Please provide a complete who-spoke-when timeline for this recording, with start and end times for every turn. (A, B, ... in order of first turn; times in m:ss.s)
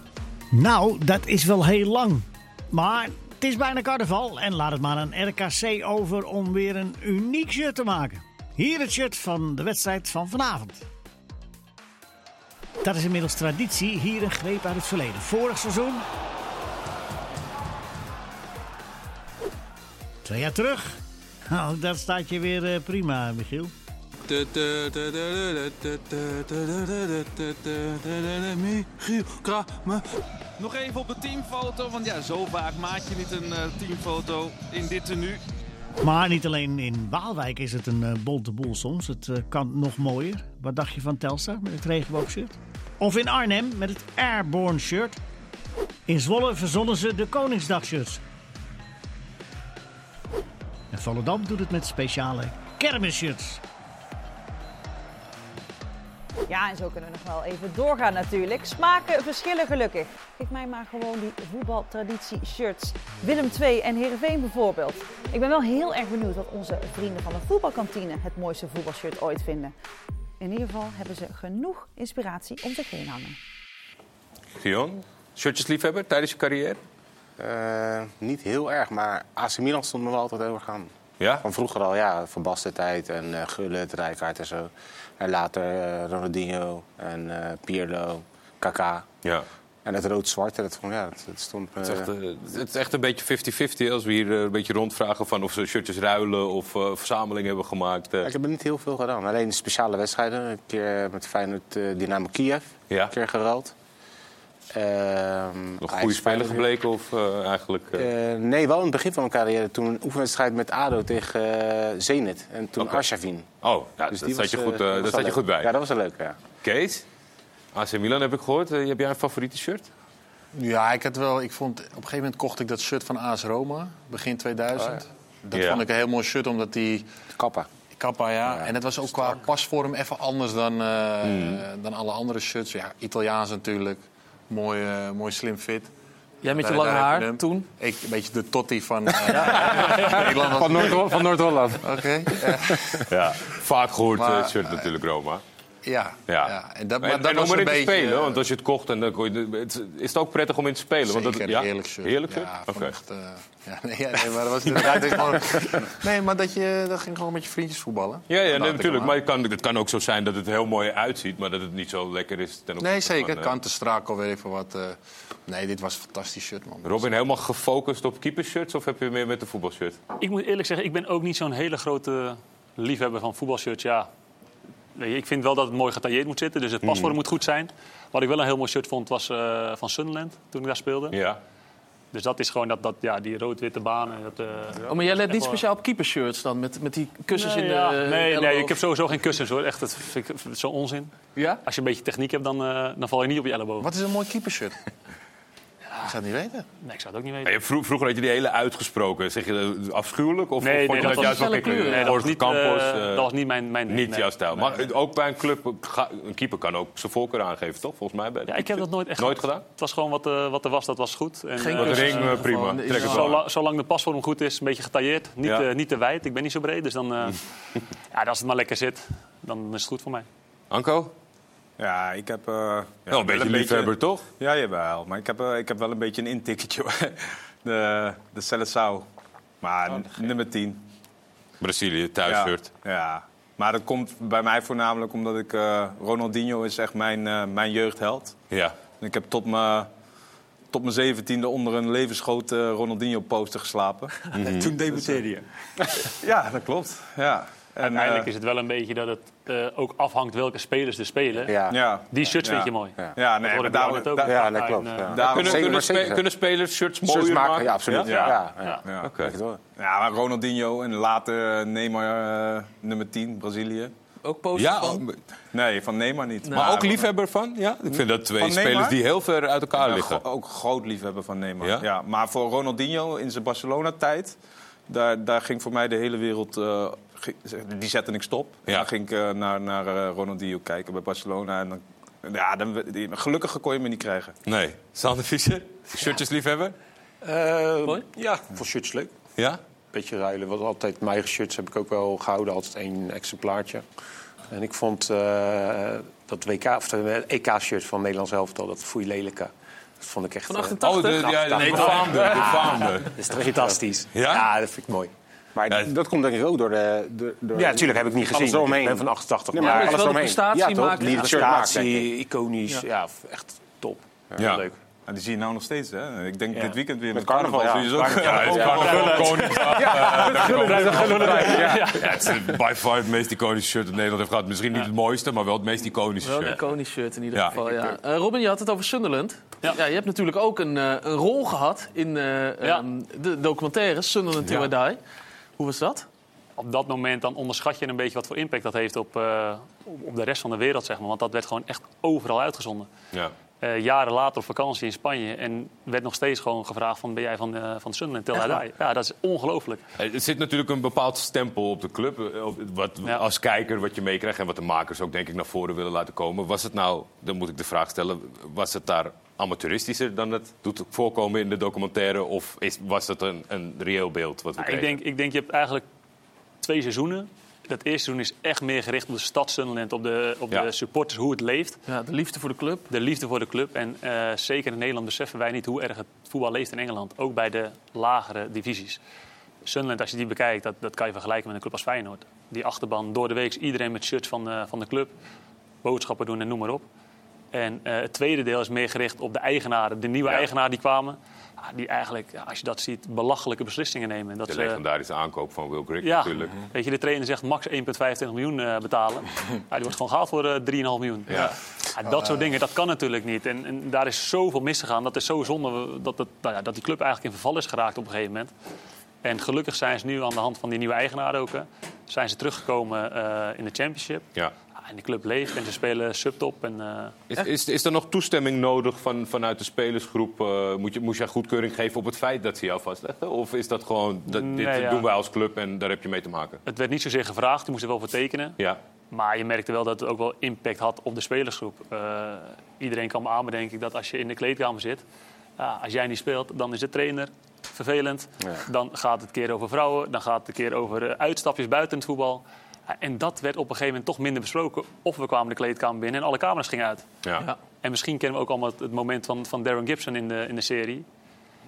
0:00.5-0:10.8 A
0:12.8-0:16.0 A
0:20.2-0:21.0 A
0:21.5-0:23.7 A
0:24.3-0:30.0 B
0:30.6-0:35.4 B
0:36.0-0:45.2 A
0:46.1-0:48.2 A
0:50.9-0:53.6 A
0:56.5-1:09.7 C
1:10.4-1:13.4 C
1:14.6-1:16.8 D
1:17.4-1:29.1 E
1:29.8-1:32.1 E
1:31.8-1:38.3 D
1:38.2-1:43.7 E
1:44.7-1:46.6 E
1:45.8-1:48.1 D
1:47.9-1:53.5 E
1:53.6-1:55.7 D
1:54.1-1:56.4 E
1:56.6-1:57.0 D
1:57.7-1:59.9 D
2:00.5-2:07.0 F
2:05.5-2:05.8 D
2:07.4-2:07.7 E
2:08.0-2:15.9 F
2:08.5-2:08.7 E
2:11.2-2:11.6 D
2:16.4-2:17.7 G
2:16.4-2:23.1 F
2:19.3-2:20.0 G
2:23.1-2:25.4 D
2:24.2-2:24.9 F
2:25.8-2:28.4 F
2:26.3-2:32.9 D
2:31.1-2:39.1 F
2:34.6-2:35.7 D
2:38.3-2:43.5 D
2:42.8-2:47.1 F
2:46.8-2:50.0 D
2:50.2-2:54.1 H
2:55.0-3:01.2 H
2:56.8-2:57.2 D
3:01.1-3:01.4 D
3:02.1-3:05.6 H
3:04.9-3:08.8 G
3:07.3-3:13.9 H
3:11.4-3:11.6 G
3:13.8-3:14.8 F
3:15.9-3:16.1 H
3:16.0-3:16.6 F
3:16.8-3:17.5 H
3:17.4-3:23.3 D
3:20.6-3:24.9 H
3:21.0-3:22.1 G
3:23.9-3:29.6 D
3:28.5-3:37.4 H
3:31.6-3:33.4 G
3:31.7-3:33.4 D
3:38.1-3:40.3 H
3:40.7-3:41.1 D
3:41.8-3:49.0 I
3:43.1-3:44.2 D
3:49.6-3:50.8 I
3:51.6-3:52.7 D
3:52.3-3:58.4 I
3:58.5-3:58.8 D
3:59.0-3:59.9 I
4:00.7-4:04.1 I
4:04.3-4:04.7 D
4:04.4-4:05.4 J
4:06.2-4:08.3 I
4:07.8-4:11.5 H
4:11.5-4:12.2 E
4:11.7-4:14.5 I
4:12.1-4:15.3 H
4:14.2-4:16.2 E
4:15.1-4:15.7 I
4:15.2-4:18.0 D
4:17.0-4:19.6 E
4:17.9-4:18.3 I
4:18.1-4:18.8 H
4:19.0-4:19.3 D
4:19.8-4:23.9 I
4:24.2-4:25.0 G
4:24.6-4:25.2 D
4:25.5-4:27.0 I
4:26.5-4:30.2 D
4:28.4-4:29.0 I
4:29.8-4:34.4 I
4:34.9-4:44.3 I
4:44.4-4:46.7 D
4:47.2-4:49.1 J
4:49.9-4:53.8 J
4:54.5-5:05.1 J
5:00.4-5:02.8 G
5:00.8-5:03.1 D
5:04.1-5:04.5 D
5:05.5-5:12.1 E
5:07.5-5:10.2 J
5:09.6-5:11.5 G
5:11.1-5:14.8 J
5:14.4-5:14.6 D
5:15.1-5:19.0 I
5:17.1-5:19.6 E
5:18.0-5:26.6 D
5:18.6-5:22.3 H
5:20.0-5:21.9 I
5:20.9-5:21.8 E
5:26.2-5:35.0 G
5:34.4-5:34.7 D
5:35.6-5:36.0 G
5:36.6-5:42.9 H
5:43.6-5:49.8 H
5:50.0-6:05.0 D
6:04.6-6:05.8 H
6:06.6-6:11.8 H
6:11.9-6:12.9 G
6:12.9-6:19.0 H
6:19.6-6:25.1 H
6:25.8-6:26.8 H
6:27.5-6:34.8 H
6:34.5-6:36.6 D
6:36.0-6:48.5 H
6:42.1-6:42.4 F
6:49.2-6:54.2 H
6:54.8-6:57.2 H
6:57.3-7:06.6 D
7:04.3-7:05.0 H
7:06.6-7:08.6 H
7:09.1-7:15.0 H
7:15.6-7:27.0 H
7:27.8-7:31.0 H